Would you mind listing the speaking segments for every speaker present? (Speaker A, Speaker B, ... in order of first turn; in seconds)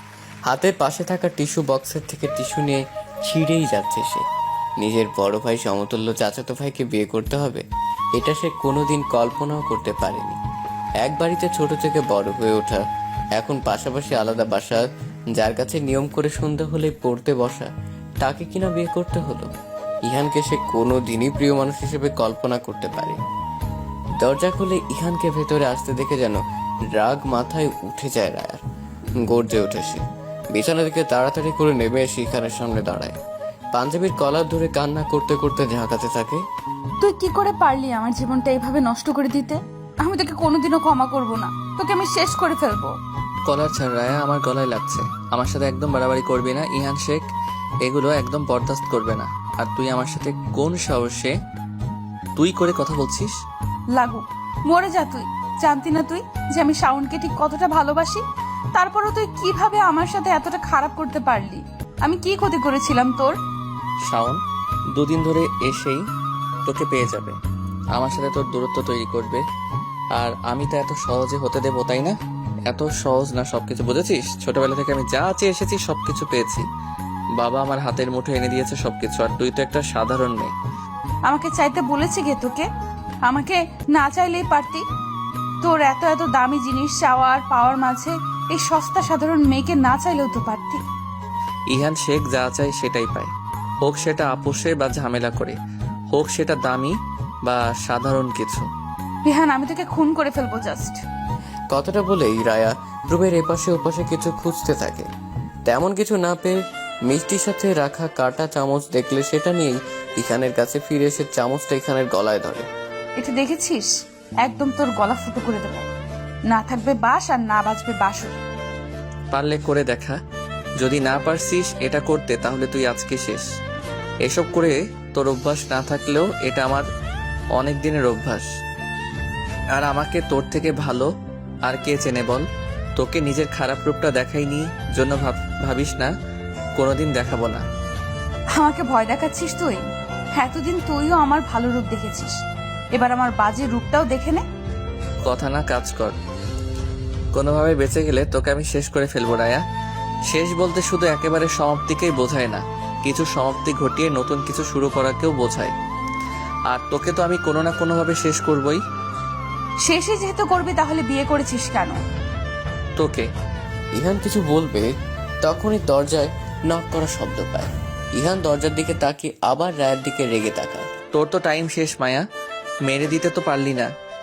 Speaker A: 0.5-4.2, 4.8-7.6, 8.2-10.4, 11.0-12.8, 13.4-14.8, 15.4-17.7, 18.2-19.5, 20.1-23.2, 24.2-26.4, 26.9-28.6, 29.3-30.0, 30.5-33.1, 33.7-36.4, 101.7-105.1, 105.7-112.7, 163.9-164.9, 165.4-170.9
Speaker B: 37.0-43.0, 53.9-58.2, 58.7-63.4, 81.3-82.7, 83.2-84.8, 85.6-90.8, 99.2-101.0, 113.2-113.9, 114.4-115.9, 116.5-118.3, 138.6-142.4, 142.9-144.4, 159.8-162.0
Speaker C: 43.5-47.2, 47.8-51.3, 52.4-53.4, 64.1-64.4, 65.0-66.0, 66.7-67.4, 68.0-69.4, 70.2-72.2, 72.7-76.7, 77.4-80.5, 91.7-93.3, 93.8-95.6, 96.1-96.9, 97.5-98.7, 119.3-120.2, 120.8-123.5, 124.2-126.9, 127.6-128.5, 129.7-131.1, 131.7-132.4, 133.0-136.1, 136.8-137.6, 145.2-146.2, 147.3-149.6, 150.3-155.7, 156.7-158.8, 163.0-163.3, 171.1-172.2, 172.9-173.9